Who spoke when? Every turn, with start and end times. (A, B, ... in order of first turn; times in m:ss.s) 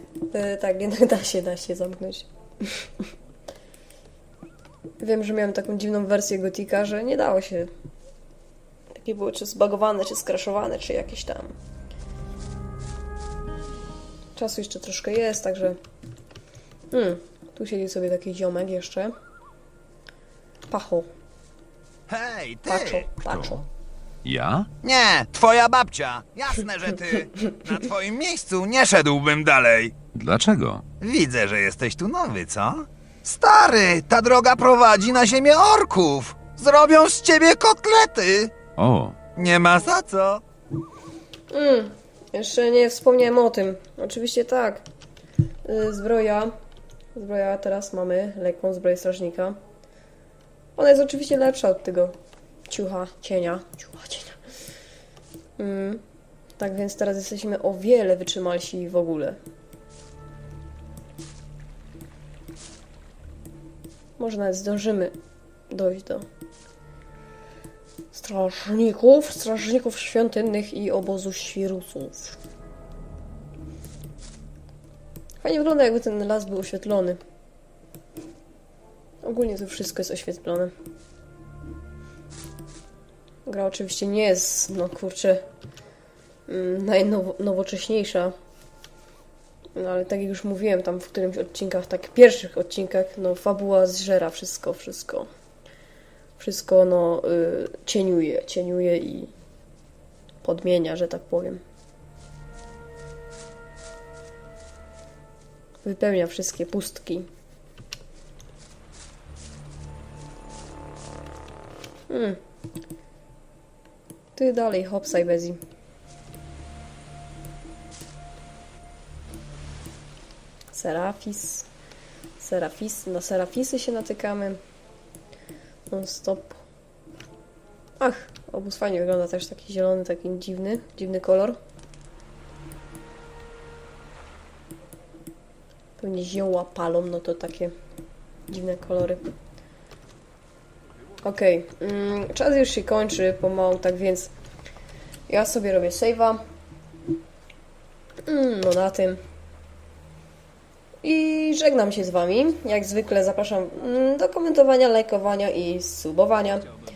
0:00.3-0:02.9 A
0:05.0-0:07.7 A
0:08.9-0:11.5 A
0:14.4-0:15.8 A
0:16.9-0:19.1 A
0:20.7-0:21.1 A
0:22.1-0:23.1 B
0:22.6-0:23.6 A
0:23.2-0:23.6 C
0:24.2-0:24.7 C
0:24.8-0:29.9 B
0:30.1-0:30.8 C
0:31.0-0:38.5 B
0:38.8-0:39.2 C
0:39.4-0:40.4 B
0:41.5-0:44.8 A
0:45.6-0:46.5 A
0:47.1-0:49.6 A
0:50.8-0:52.1 A
0:52.7-0:54.4 A
0:55.6-0:56.0 A
0:56.6-0:59.4 A
1:04.2-1:05.1 A
1:05.7-1:06.2 A
1:08.1-1:12.4 A
1:15.4-1:17.2 A
1:19.2-1:20.7 A
1:23.4-1:25.4 A
1:26.5-1:28.3 A
1:29.7-1:35.3 A
1:36.4-1:39.3 A
1:40.4-1:41.6 A
1:45.8-1:47.3 A
1:52.1-1:52.4 A
1:54.4-1:55.6 A
2:00.7-2:01.7 A
2:02.4-2:04.6 A
2:05.9-2:06.6 A
2:08.0-2:11.6 A
2:16.0-2:17.7 A
2:18.5-2:19.3 A
2:21.2-2:24.3 A
2:25.3-2:26.4 A
2:28.2-2:29.2 A
2:31.0-2:36.7 A